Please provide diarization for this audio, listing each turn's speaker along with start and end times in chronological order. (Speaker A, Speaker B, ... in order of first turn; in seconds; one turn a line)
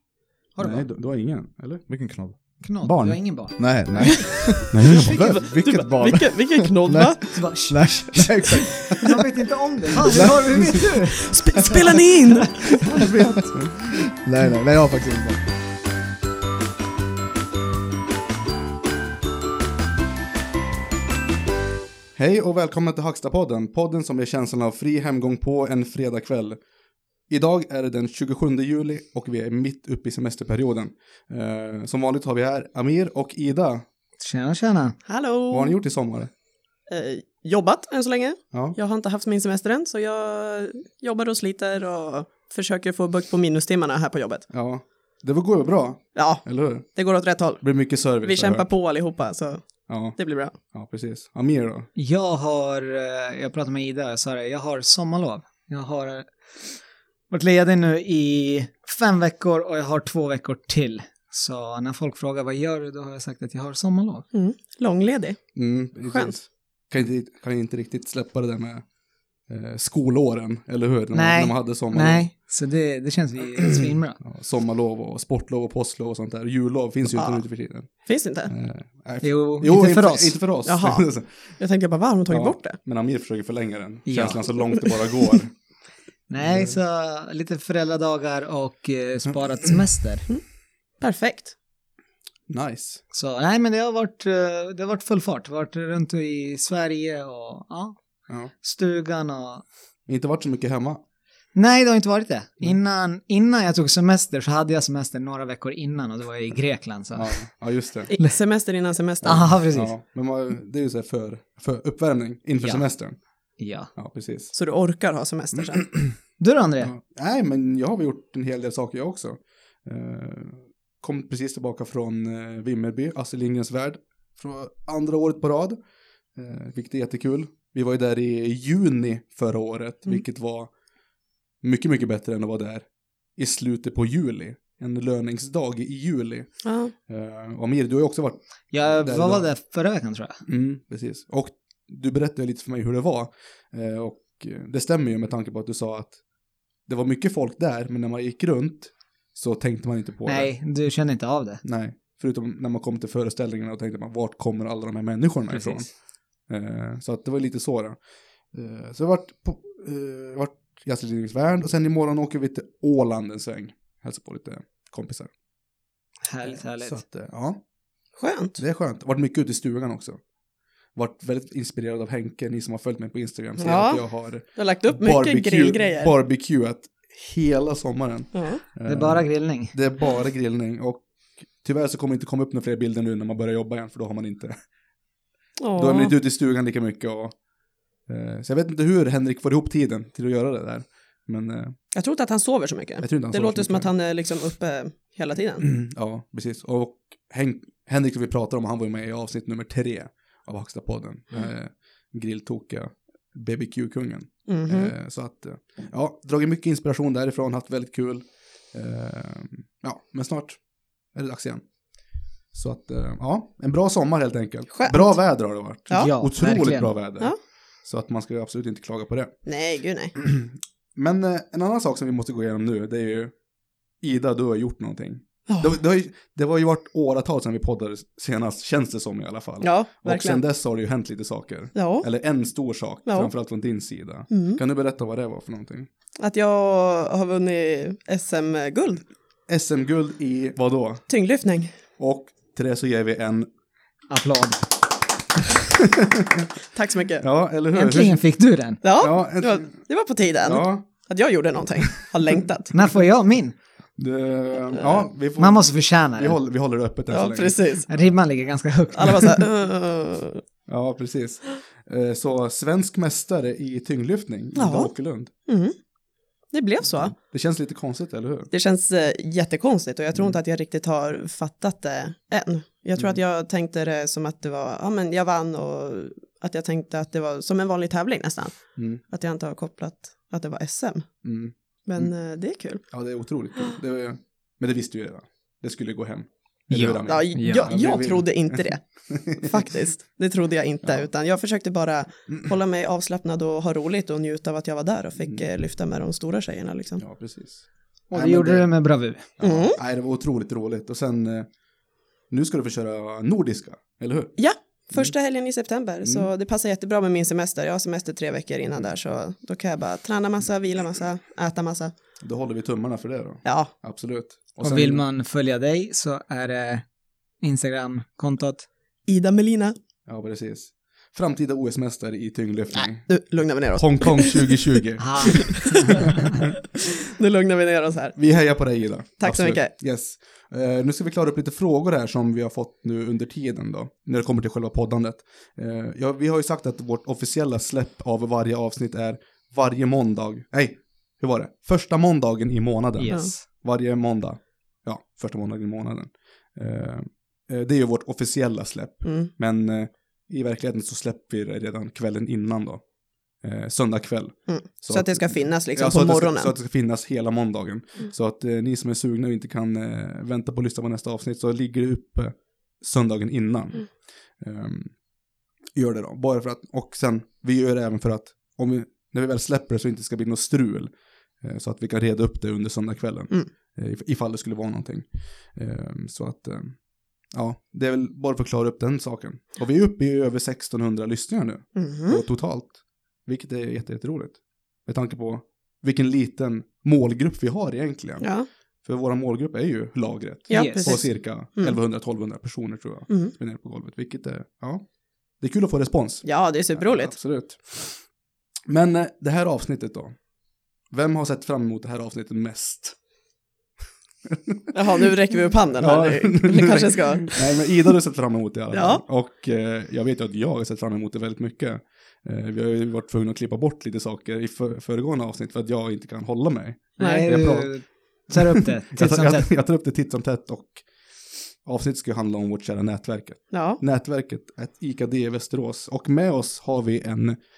Speaker A: 0.6-0.9
Speaker B: 0.6-1.9
Speaker C: 1.9-2.4
Speaker A: 2.6-4.3
Speaker B: 2.8-3.2
Speaker C: 3.6-9.2
Speaker D: 4.0-4.6
Speaker B: 4.7-5.3
Speaker D: 5.2-7.4
Speaker A: 7.3-8.5
Speaker A: 9.0-11.8
Speaker C: 10.1-10.9
Speaker D: 11.1-12.9
Speaker C: 11.6-15.4
Speaker B: 13.5-13.9
Speaker B: 22.1-26.6
Speaker B: 27.3-33.9
Speaker A: 34.2-35.0
Speaker D: 35.1-35.8
Speaker B: 35.5-36.3
Speaker D: 36.9-44.5
Speaker B: 44.5-46.9
Speaker D: 46.1-47.6
Speaker B: 47.6-48.7
Speaker D: 48.2-49.7
Speaker B: 49.9-51.9
Speaker D: 50.2-50.5
Speaker A: 52.0-56.7
Speaker A: 57.3-64.3
Speaker D: 64.3-65.4
Speaker B: 65.6-68.8
Speaker D: 66.1-66.3
Speaker B: 69.5-72.3
Speaker A: 71.1-74.2
Speaker B: 73.5-81.6
Speaker D: 77.1-77.5
Speaker D: 78.0-78.5
Speaker A: 79.2-80.4
Speaker D: 80.6-82.8
Speaker B: 82.3-85.5
Speaker A: 84.1-84.4
Speaker D: 84.7-85.4
Speaker A: 86.3-90.3
Speaker B: 86.4-86.8
Speaker D: 91.0-91.5
Speaker B: 92.5-93.0
Speaker A: 93.1-98.0
Speaker A: 98.6-99.6
Speaker B: 100.1-101.0
Speaker A: 101.5-107.4
Speaker B: 107.2-108.1
Speaker D: 108.1-109.5
Speaker A: 109.2-110.0
Speaker B: 109.2-113.2
Speaker A: 112.6-112.9
Speaker A: 113.6-113.9
Speaker B: 114.0-114.5
Speaker D: 114.5-116.1
Speaker A: 116.4-116.9
Speaker B: 116.8-125.8
Speaker B: 126.4-130.7
Speaker B: 131.6-139.5
Speaker D: 136.7-136.9
Speaker A: 138.7-140.4
Speaker B: 140.5-146.2
Speaker B: 146.9-150.5
Speaker A: 150.3-151.6
Speaker B: 151.6-155.9
Speaker A: 155.5-155.9
Speaker B: 156.5-158.0
Speaker B: 158.5-165.3
Speaker A: 166.2-167.0
Speaker B: 166.5-167.6
Speaker D: 168.2-168.6
Speaker B: 168.6-170.2
Speaker B: 170.9-184.6
Speaker D: 173.6-174.0
Speaker D: 174.6-176.1
Speaker D: 178.3-178.6
Speaker A: 178.8-179.7
Speaker D: 185.6-186.2
Speaker B: 185.8-187.3
Speaker B: 188.1-191.8
Speaker D: 191.9-195.7
Speaker B: 193.0-193.9
Speaker B: 195.6-210.6
Speaker D: 204.5-204.9
Speaker B: 211.1-211.6
Speaker B: 212.5-219.4
Speaker D: 214.7-215.2
Speaker A: 216.0-216.9
Speaker D: 219.5-220.2
Speaker B: 220.2-223.3
Speaker B: 224.0-235.9
Speaker D: 225.5-225.7
Speaker D: 229.6-230.4
Speaker D: 231.8-232.1
Speaker D: 233.1-233.3
Speaker D: 234.3-234.6
Speaker D: 236.2-239.1
Speaker B: 239.5-241.1
Speaker D: 241.1-241.8
Speaker B: 242.0-243.5
Speaker A: 244.1-244.7
Speaker B: 245.8-246.5
Speaker D: 246.7-247.3
Speaker B: 247.2-248.2
Speaker A: 247.7-248.8
Speaker D: 248.8-252.7
Speaker B: 249.0-249.8
Speaker B: 250.4-250.9
Speaker A: 252.7-253.6
Speaker B: 254.0-258.1
Speaker A: 255.4-256.4
Speaker D: 257.1-257.9
Speaker A: 257.9-259.3
Speaker D: 258.9-260.4
Speaker B: 260.7-265.3
Speaker D: 264.6-264.9
Speaker D: 265.5-265.8
Speaker D: 266.5-267.1
Speaker B: 267.3-268.5
Speaker D: 268.5-281.1
Speaker B: 278.8-279.0
Speaker B: 281.2-282.1
Speaker D: 281.9-282.8
Speaker B: 282.9-289.6
Speaker A: 286.7-287.7
Speaker D: 287.1-297.0
Speaker B: 297.0-298.7
Speaker A: 298.1-299.3
Speaker B: 299.4-301.5
Speaker D: 299.4-299.8
Speaker B: 302.3-304.3
Speaker D: 304.4-311.9
Speaker B: 306.0-306.3
Speaker B: 312.2-315.0
Speaker D: 313.4-313.7
Speaker A: 314.6-316.9
Speaker A: 317.4-318.7
Speaker D: 319.1-319.8
Speaker B: 320.1-326.1
Speaker D: 323.1-324.5
Speaker A: 325.0-326.3
Speaker D: 325.2-328.2
Speaker B: 328.2-352.9
Speaker D: 329.2-329.7
Speaker A: 343.0-343.4
Speaker D: 349.0-349.3
Speaker B: 353.4-365.0
Speaker D: 354.5-356.5
Speaker B: 365.7-376.8
Speaker B: 377.3-388.3
Speaker D: 381.8-382.2
Speaker D: 388.2-388.5
Speaker B: 388.8-394.9
Speaker D: 390.5-391.8
Speaker A: 390.5-391.0
Speaker B: 395.4-398.1
Speaker D: 396.2-397.1
Speaker B: 398.7-400.2
Speaker B: 400.9-403.0
Speaker B: 404.3-405.1
Speaker D: 404.7-407.7
Speaker B: 405.8-417.8
Speaker D: 408.7-409.0
Speaker D: 417.0-417.3
Speaker A: 417.0-419.5
Speaker B: 418.3-420.9
Speaker B: 421.6-427.4
Speaker D: 423.5-423.8